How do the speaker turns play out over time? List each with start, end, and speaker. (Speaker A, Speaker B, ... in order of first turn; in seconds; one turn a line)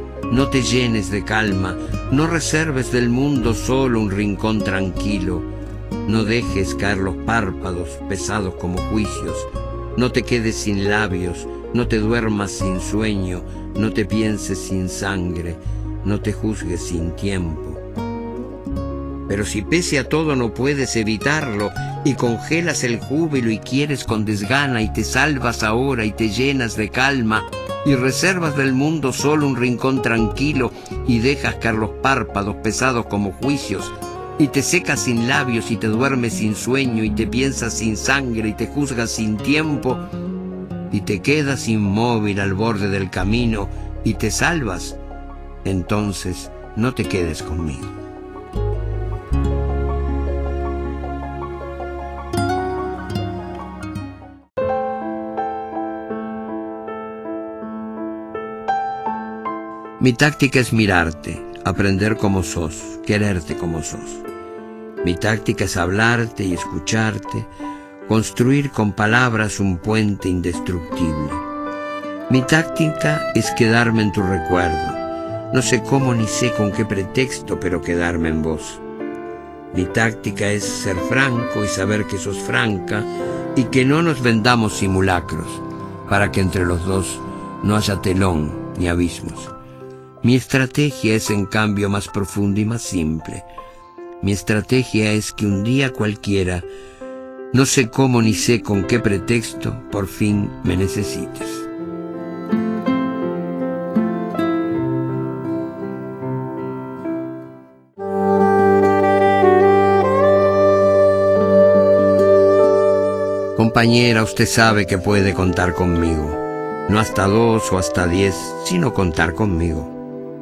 Speaker A: 0.3-5.5
Speaker A: 6.0-17.8
Speaker A: 19.3-40.0
Speaker A: 40.9-45.0
Speaker A: 45.6-47.9
Speaker A: 60.0-64.2
Speaker A: 65.0-67.5
Speaker A: 68.1-71.4
Speaker A: 72.3-75.0
Speaker A: 75.5-78.8
Speaker A: 79.7-89.5
Speaker A: 90.2-93.5
Speaker A: 94.2-96.7
Speaker A: 97.5-101.7
Speaker A: 113.6-120.0